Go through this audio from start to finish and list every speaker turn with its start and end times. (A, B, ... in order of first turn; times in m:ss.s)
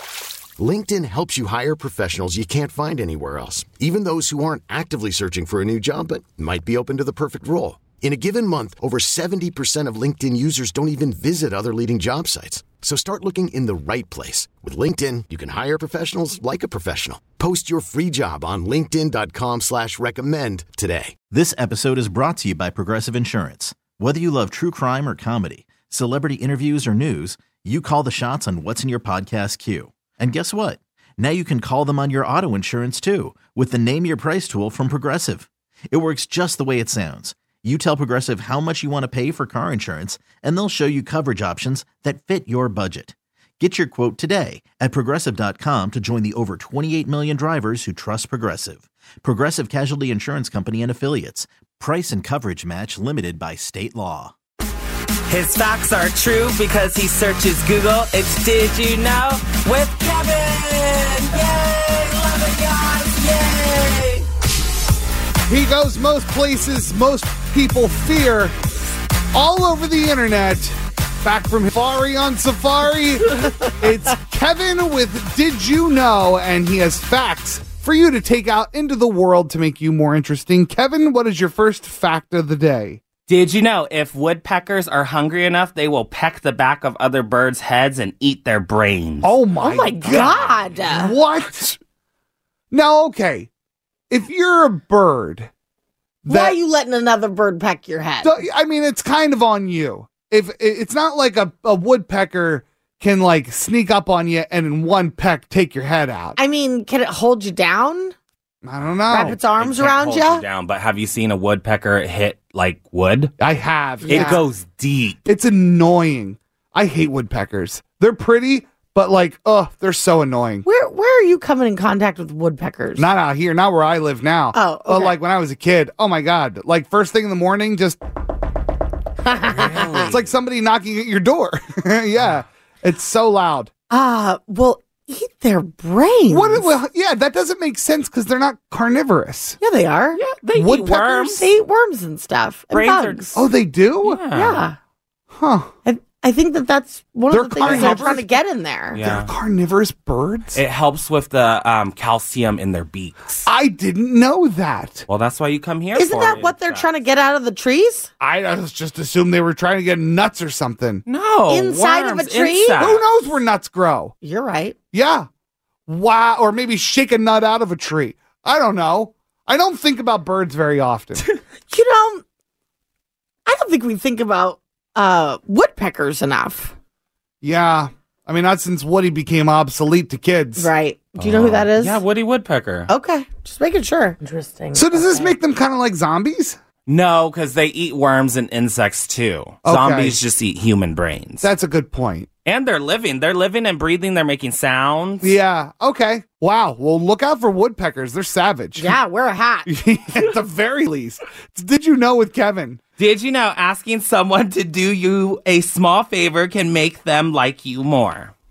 0:00.6-0:21.1 A
0:21.3-0:54.3 B
0:55.3-1:04.2 C
1:05.5-1:08.5 D
1:09.3-1:23.0 D
1:23.3-1:30.8 C
1:29.2-1:30.3 D
1:29.6-1:31.2 E
1:30.9-1:31.8 D
1:32.7-1:33.5 D
1:34.1-1:35.5 D
1:36.2-1:36.6 D
1:36.3-1:38.4 E
1:38.2-1:46.4 D
1:46.4-1:48.1 E
1:48.6-1:49.4 D
1:49.1-1:50.4 E
1:49.2-1:53.3 C
1:53.4-1:54.2 D
1:54.0-1:54.4 E
1:54.1-1:55.2 C
1:55.2-2:00.6 D
2:00.6-2:03.1 E
2:03.0-2:08.0 D
2:04.5-2:05.2 E
2:09.2-2:10.1 E
2:09.5-2:10.3 C
2:10.1-2:13.7 D
2:13.9-2:16.8 E
2:16.3-2:19.6 D
2:19.6-2:20.2 E
2:20.1-2:21.5 C
2:20.6-2:21.3 D
2:21.2-2:23.3 E
2:22.7-2:23.4 C
2:23.3-2:24.2 D
2:24.0-2:24.7 C
2:24.3-2:24.8 E
2:25.4-2:25.7 D
2:25.8-2:29.0 E
2:27.3-2:28.3 D
2:27.6-2:28.1 C
2:28.9-2:29.3 C
2:29.1-2:30.6 D
2:30.5-2:33.5 C
2:33.5-2:35.1 D
2:35.1-2:36.9 C
2:36.0-2:38.1 E
2:38.2-2:41.0 D
2:41.1-2:43.0 C
2:41.5-2:42.9 E
2:42.8-2:44.1 D
2:44.2-2:44.8 E
2:44.9-2:45.3 D
2:45.9-2:51.2 D
2:51.7-2:52.2 E
2:53.5-2:56.7 E
2:57.4-3:00.7 D
3:00.6-3:02.0 E
3:01.2-3:02.9 C
3:02.9-3:05.4 E
3:04.8-3:06.6 D
3:06.9-3:11.4 C
3:09.6-3:10.2 D
3:11.4-3:12.3 D
3:12.4-3:15.4 C
3:15.2-3:19.0 D
3:18.8-3:19.7 E
3:19.7-3:22.8 D
3:23.0-3:28.3 C